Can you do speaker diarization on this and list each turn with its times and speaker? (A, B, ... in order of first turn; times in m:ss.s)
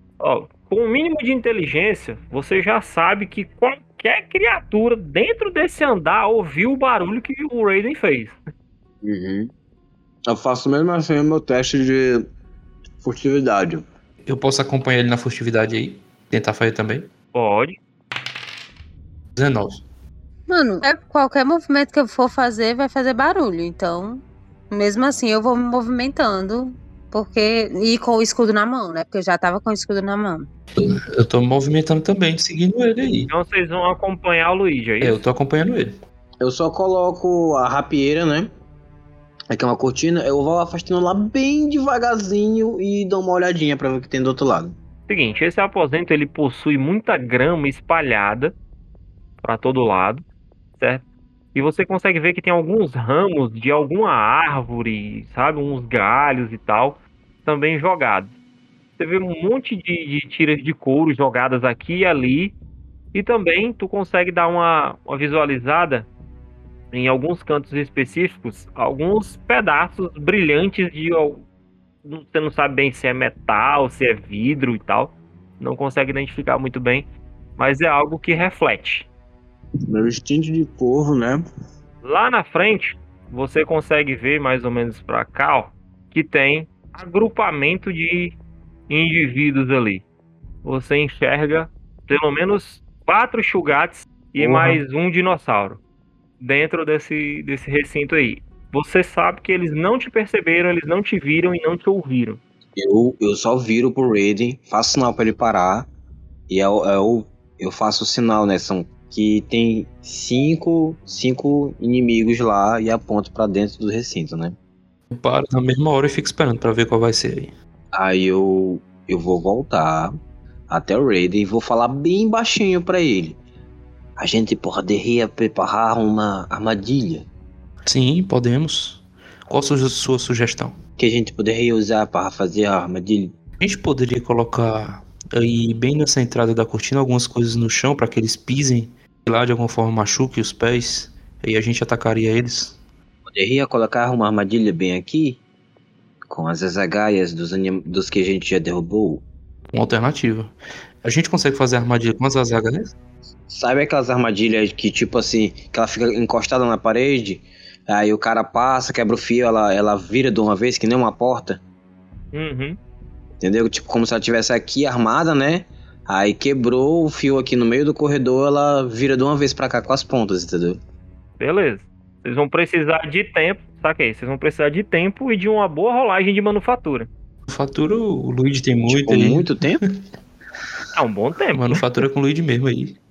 0:00.2-0:08.4 A
0:09.0-0:09.5 B
0:10.3-0:12.2 B
0:13.0-0:13.8 B
0:14.3-0:17.1 C
0:17.3-0:17.8 A
0:19.4-0:19.8 C
0:20.5-0:30.5 D
0:30.8-0:33.3 C
0:33.3-0:35.2 A
0:35.0-0:36.0 C
0:36.4-0:38.5 B
0:39.5-0:44.8 B
0:45.1-0:48.6 A
0:49.4-0:50.2 A
0:50.8-0:58.3 A
0:59.0-1:02.6 A
1:03.1-1:06.1 A
1:06.9-1:11.4 A
1:12.0-1:19.1 A
1:19.9-1:21.4 B
1:22.0-1:28.4 A
1:28.9-1:30.0 A
1:30.6-1:35.8 A
1:34.4-1:34.8 B
1:36.4-1:42.4 A
1:42.8-1:45.9 B
1:46.5-1:54.6 B
1:55.1-1:57.5 C
1:58.0-2:00.1 B
2:00.7-2:03.4 B
2:04.2-2:07.3 B
2:07.9-2:10.8 C
2:11.0-2:13.3 B
2:13.6-2:22.8 C
2:23.3-2:25.4 B
2:26.3-2:29.2 B
2:29.7-2:32.9 C
2:33.5-2:41.6 B
2:42.3-2:42.8 A
2:43.4-2:50.8 B
2:51.4-2:57.1 A
2:57.5-2:59.5 C
2:58.9-2:59.8 B
3:01.0-3:01.8 A
3:01.5-3:03.0 C